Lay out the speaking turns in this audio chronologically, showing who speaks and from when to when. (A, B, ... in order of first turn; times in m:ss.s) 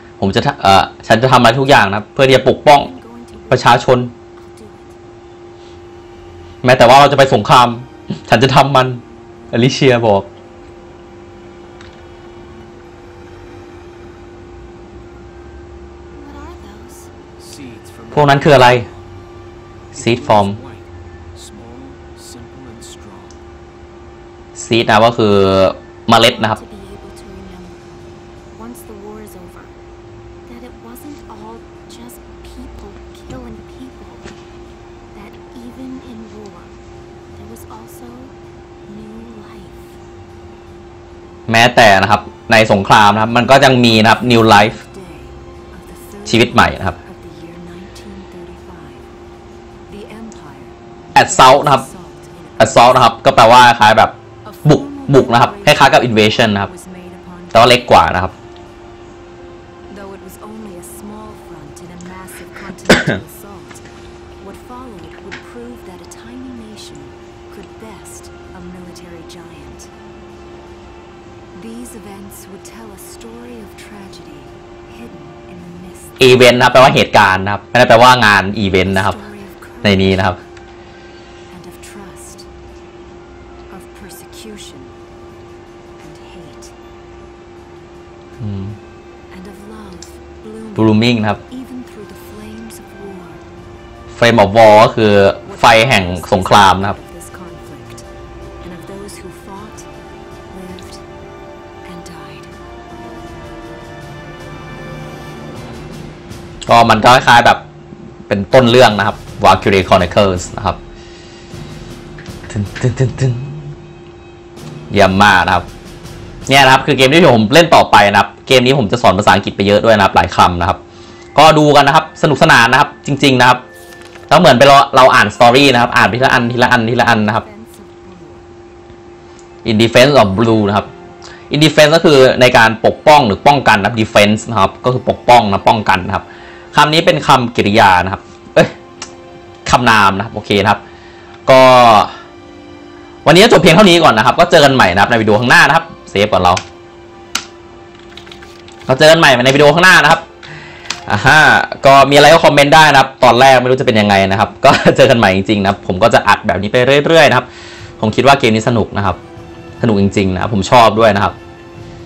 0:00.2-0:02.9 A
0:02.9-0:03.8 B
0:03.3-0:03.6 C
0:03.5-0:04.1 A
0:04.3-0:05.0 B
0:06.6-0:10.3 A
0:16.1-0:17.1 B
0:17.4-0:18.9 D
0:18.1-0:18.8 A
0:19.9-0:23.4 D
0:19.9-0:20.6 A
0:24.5-0:26.6 A
0:26.3-0:27.8 B
0:28.5-0:29.8 B
0:30.5-0:34.2 B
0:31.1-0:34.1 C
0:35.1-0:36.7 B
0:37.4-0:38.3 B
0:38.9-0:39.7 B
0:39.1-0:39.8 C
0:41.5-0:44.8 A
0:43.6-0:49.1 C
0:46.2-0:47.0 A
0:49.9-0:53.2 C
0:51.1-0:51.8 A
0:52.6-0:56.7 A
0:54.4-0:57.8 C
0:57.5-0:58.3 A
0:59.9-1:03.8 C
1:02.9-1:03.2 A
1:04.4-1:09.9 C
1:11.5-1:16.7 C
1:16.2-1:19.2 A
1:18.6-1:20.4 C
1:19.8-1:20.4 A
1:21.5-1:22.5 C
1:23.7-1:25.0 C
1:26.0-1:26.7 C
1:28.4-1:28.8 A
1:29.3-1:33.4 C
1:30.8-1:31.4 A
1:34.1-1:37.0 A
1:35.4-1:38.1 C
1:38.6-1:39.9 C
1:40.5-1:41.0 C
1:41.8-1:42.5 C
1:46.6-1:47.6 A
1:48.3-1:50.8 A
1:52.5-1:53.7 A
1:54.9-1:55.7 A
1:56.5-2:00.8 A
2:01.3-2:03.6 A
2:04.3-2:07.4 A
2:06.7-2:08.5 C
2:09.6-2:10.9 A
2:11.5-2:18.7 A
2:19.6-2:20.8 A
2:21.4-2:22.1 A
2:23.2-2:26.6 A
2:28.9-2:30.2 A
2:31.0-2:37.5 A
2:38.0-2:39.2 A
2:39.8-2:41.4 A